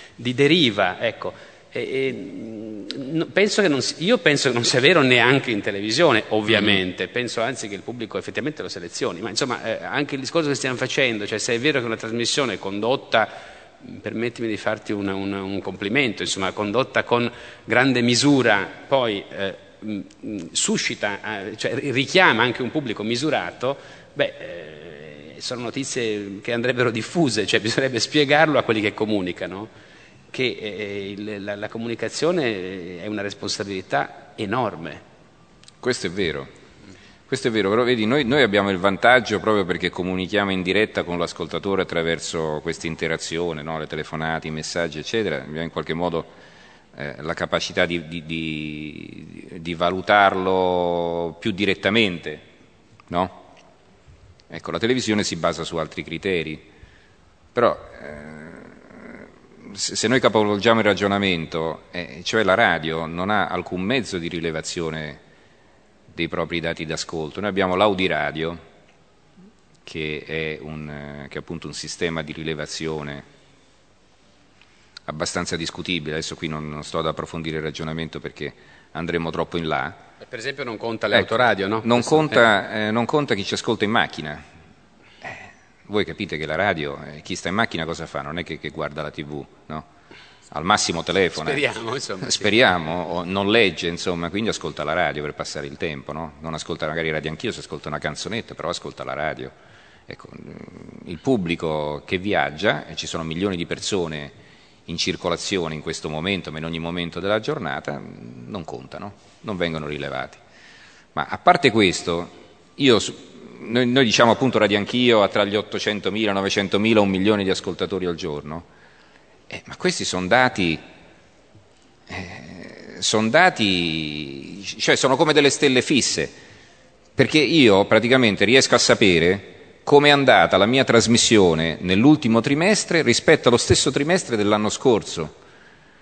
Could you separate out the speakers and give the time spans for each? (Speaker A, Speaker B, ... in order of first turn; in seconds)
Speaker A: 0.2-29.7, 30.3-35.0, 80.2-82.5, 91.4-92.5
Speaker B: 6.5-6.8, 35.8-36.5, 37.3-46.3, 46.9-52.4, 53.1-53.4, 54.5-56.6, 57.5-65.2, 66.1-68.6, 69.9-73.2, 75.1-80.0, 81.8-84.4, 85.2-89.9, 90.5-91.7, 92.2-99.5, 100.1-104.3, 104.9-110.4, 111.1-118.7, 119.5-120.8, 122.1-126.4, 127.2-135.3